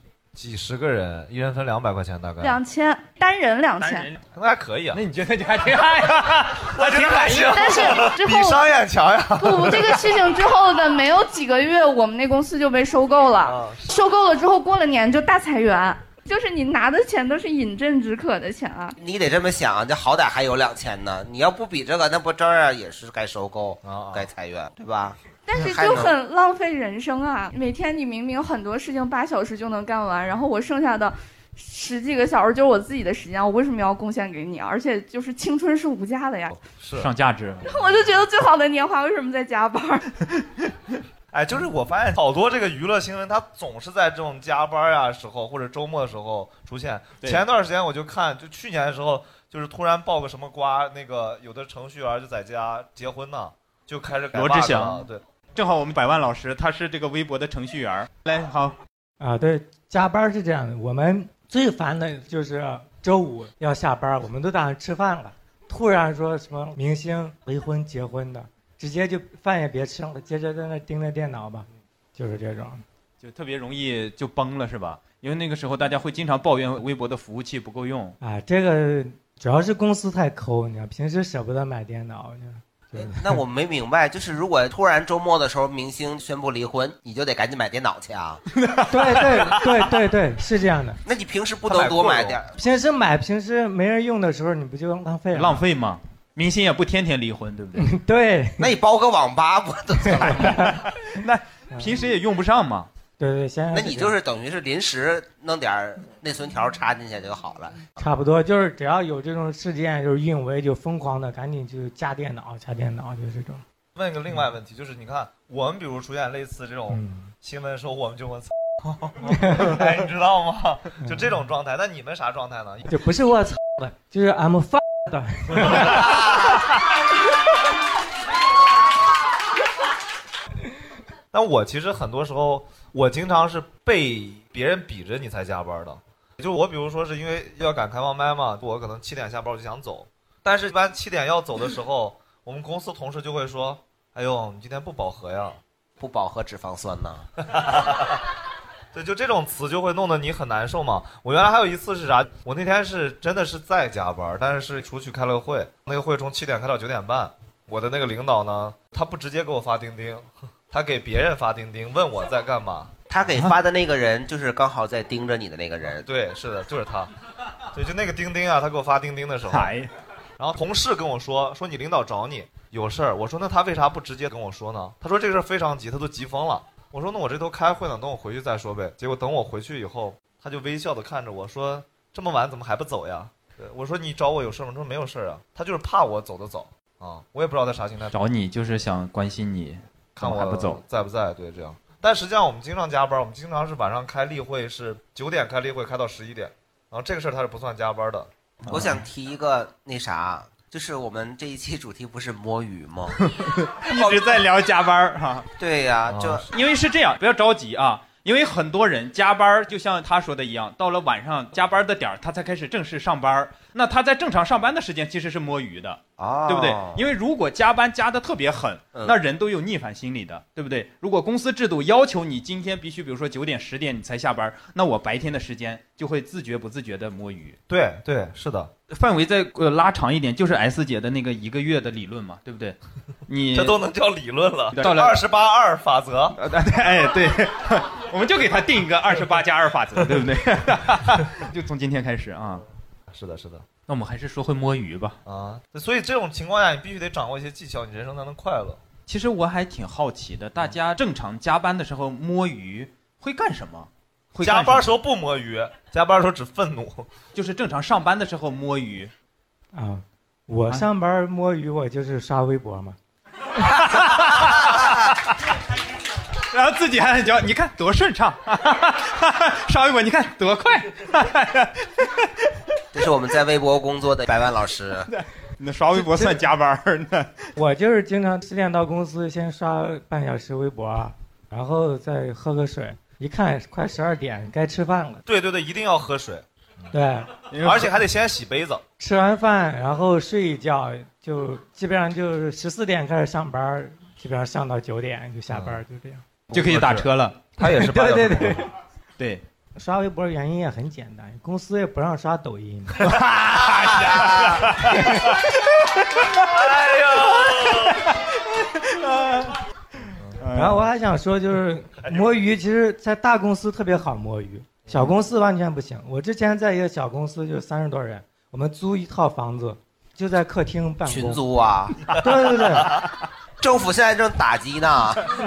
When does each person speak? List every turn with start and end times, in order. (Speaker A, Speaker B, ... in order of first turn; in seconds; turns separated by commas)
Speaker A: 0.3-2.6, Speaker B: 2.4-4.1, Speaker A: 4.3-5.0, Speaker C: 4.9-8.0, Speaker A: 6.7-10.0, Speaker B: 7.4-8.6, Speaker B: 9.4-19.0, Speaker A: 13.4-13.9, Speaker D: 19.0-26.1, Speaker A: 23.8-24.3, Speaker B: 25.5-36.6, Speaker A: 36.6-37.1, Speaker C: 37.0-37.8, Speaker B: 37.6-40.1, Speaker A: 41.3-55.2, Speaker C: 54.3-58.8, Speaker E: 59.2-72.8, Speaker C: 73.2-78.2, Speaker E: 78.2-83.2, Speaker D: 82.9-88.4, Speaker C: 88.6-89.4, Speaker E: 88.9-91.0, Speaker D: 91.0-92.5, Speaker A: 91.7-92.4, Speaker E: 92.5-95.6, Speaker C: 95.3-97.9, Speaker E: 97.8-98.7, Speaker D: 98.6-100.6, Speaker E: 100.1-100.8, Speaker C: 100.5-102.9, Speaker E: 103.2-104.2, Speaker D: 103.7-107.9, Speaker E: 108.0-113.6, Speaker A: 114.0-118.5, Speaker E: 116.9-117.3, Speaker A: 119.2-122.9, Speaker E: 119.2-119.9, Speaker E: 121.0-121.3, Speaker E: 122.9-126.2, Speaker A: 131.3-145.6, Speaker D: 146.0-147.3, Speaker A: 147.5-148.2, Speaker A: 148.9-162.9, Speaker D: 163.1-166.1, Speaker A: 166.0-167.1, Speaker A: 167.7-169.7, Speaker C: 169.5-169.9, Speaker A: 170.4-188.2, Speaker C: 188.1-190.8, Speaker A: 190.2-199.0, Speaker D: 198.7-203.2, Speaker C: 203.2-205.5, Speaker D: 203.9-204.3, Speaker D: 205.6-206.4, Speaker A: 206.1-206.4, Speaker C: 206.5-227.6, Speaker D: 216.2-217.0, Speaker A: 227.7-228.7, Speaker C: 228.9-232.8, Speaker C: 233.3-233.8, Speaker A: 233.5-236.4, Speaker C: 234.7-235.2, Speaker C: 236.4-242.6, Speaker A: 243.1-243.7, Speaker C: 243.9-245.2, Speaker A: 245.3-248.8, Speaker C: 249.1-254.9, Speaker A: 254.4-257.1, Speaker C: 257.4-259.1, Speaker E: 259.7-263.0, Speaker C: 263.7-265.0, Speaker C: 266.5-272.2, Speaker D: 272.9-275.1, Speaker C: 275.1-277.5, Speaker E: 275.9-276.4, Speaker E: 277.6-285.2, Speaker A: 285.3-286.9, Speaker E: 286.9-287.4, Speaker C: 287.5-287.9, Speaker A: 287.6-288.8, Speaker E: 289.0-296.3, Speaker A: 295.5-295.8, Speaker A: 296.5-298.6, Speaker C: 296.5-297.4, Speaker E: 297.6-298.6, Speaker E: 299.8-303.1, Speaker C: 303.0-305.3, Speaker A: 303.9-305.1, Speaker A: 306.4-308.0, Speaker C: 307.3-309.6, Speaker C: 310.4-310.8, Speaker E: 310.5-321.4, Speaker A: 312.1-312.3, Speaker A: 314.9-315.1, Speaker D: 321.1-322.1, Speaker E: 322.1-323.0, Speaker A: 322.6-323.0, Speaker D: 323.6-325.2